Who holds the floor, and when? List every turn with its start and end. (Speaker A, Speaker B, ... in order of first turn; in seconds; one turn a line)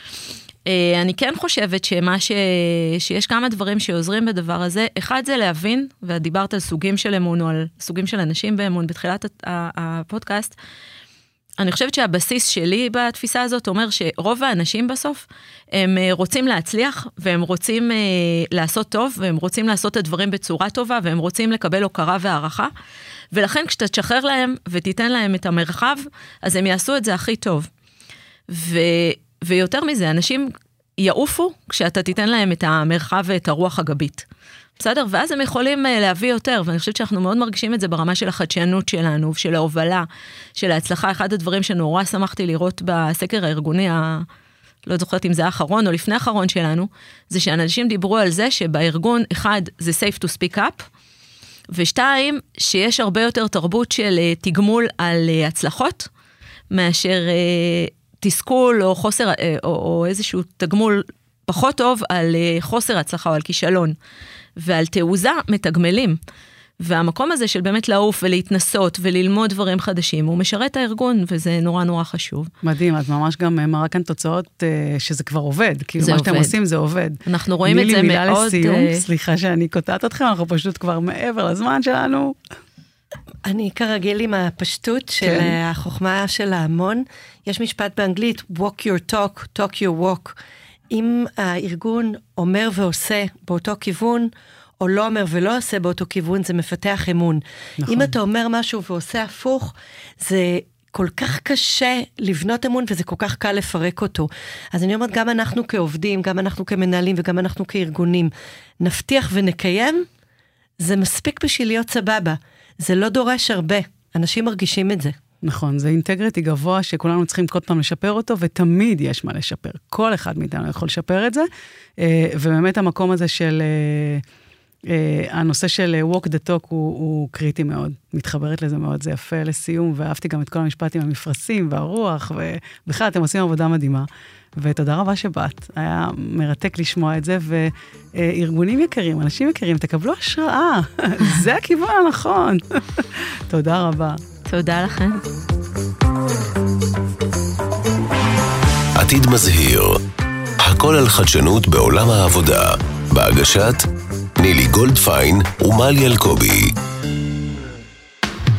Speaker A: 0.7-10.5
Speaker A: 11.6-22.7
Speaker A: 23.3-27.7
Speaker A: 28.5-34.2
Speaker A: 34.8-44.2
Speaker A: 44.9-50.9
Speaker A: 51.7-56.1
Speaker A: 56.7-64.0
Speaker A: 64.6-66.2
Speaker A: 66.8-72.5
Speaker B: 72.6-82.4
Speaker A: 76.0-76.5
Speaker A: 77.2-79.0
Speaker C: 83.4-90.4
Speaker B: 85.2-85.5
Speaker C: 90.9-110.0
Speaker B: 97.8-98.1
Speaker C: 110.8-115.2
Speaker B: 115.4-121.5
Speaker B: 122.0-124.2
Speaker B: 124.8-144.2
Speaker A: 144.4-145.2
Speaker D: 148.9-150.0
Speaker D: 150.6-153.8
Speaker D: 154.4-156.7